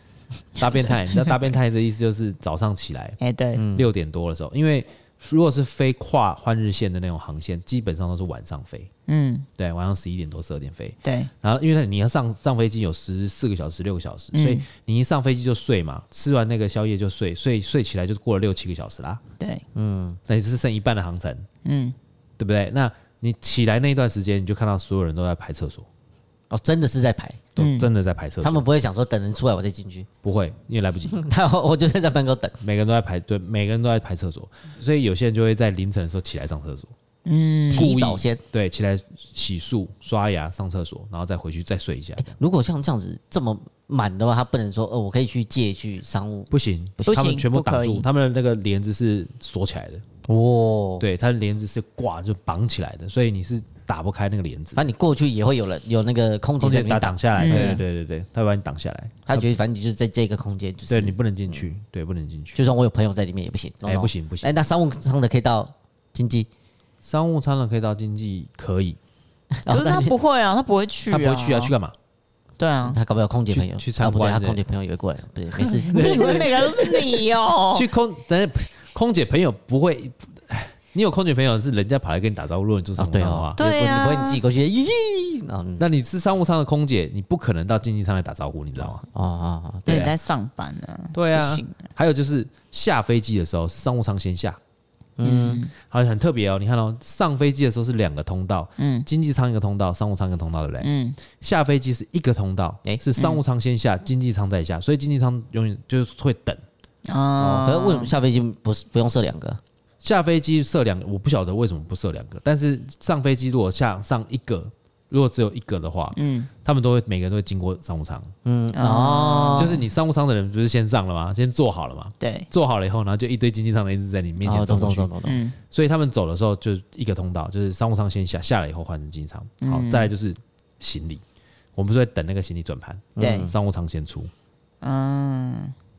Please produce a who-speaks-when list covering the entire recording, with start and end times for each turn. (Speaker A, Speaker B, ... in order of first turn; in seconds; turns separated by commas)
Speaker A: 0.6-3.2, Speaker B: 3.2-3.6, Speaker C: 3.6-3.9, Speaker A: 3.7-8.9, Speaker B: 9.1-9.5, Speaker A: 9.6-19.2, Speaker B: 11.0-11.3, Speaker B: 14.3-14.7, Speaker B: 19.4-19.6, Speaker C: 19.8-20.2, Speaker A: 20.3-21.5, Speaker B: 21.6-22.0, Speaker A: 22.4-25.9, Speaker C: 26.5-27.4, Speaker A: 27.6-28.7, Speaker B: 27.6-27.9, Speaker C: 28.4-30.1, Speaker A: 30.2-31.2, Speaker C: 31.1-32.6, Speaker A: 32.6-36.9, Speaker B: 37.2-37.9, Speaker A: 37.7-42.3, Speaker C: 37.7-38.4, Speaker C: 42.2-46.5, Speaker A: 46.5-50.0, Speaker B: 47.0-48.1, Speaker C: 50.3-51.1, Speaker A: 51.0-54.8, Speaker C: 54.8-57.8, Speaker A: 56.6-59.5, Speaker B: 57.4-57.8, Speaker C: 59.3-61.6, Speaker A: 60.9-62.7, Speaker C: 62.5-66.5, Speaker A: 63.8-64.6, Speaker A: 67.0-69.0, Speaker C: 69.6-70.1, Speaker B: 69.7-71.7, Speaker A: 71.1-72.0, Speaker B: 72.6-73.0, Speaker C: 72.9-76.7, Speaker A: 73.5-74.6, Speaker B: 75.6-77.9, Speaker A: 75.9-76.7, Speaker A: 77.7-83.6, Speaker C: 83.0-85.9, Speaker B: 83.6-84.4, Speaker A: 85.8-89.0, Speaker C: 88.8-90.1, Speaker A: 89.9-90.2, Speaker B: 89.9-91.8, Speaker A: 91.1-94.6, Speaker C: 95.2-95.7, Speaker B: 95.2-95.7, Speaker A: 95.8-106.6, Speaker B: 98.8-99.1, Speaker B: 100.8-101.2, Speaker B: 107.1-108.1, Speaker C: 107.4-109.6, Speaker A: 110.0-118.3, Speaker B: 116.2-116.5, Speaker C: 118.5-119.8, Speaker B: 118.7-119.8, Speaker A: 119.5-125.1, Speaker B: 122.2-122.5, Speaker C: 124.4-125.4, Speaker B: 125.2-125.6, Speaker A: 125.7-131.2, Speaker B: 129.6-130.1, Speaker A: 131.8-134.3, Speaker C: 133.2-133.5, Speaker B: 133.2-133.5, Speaker B: 134.8-135.8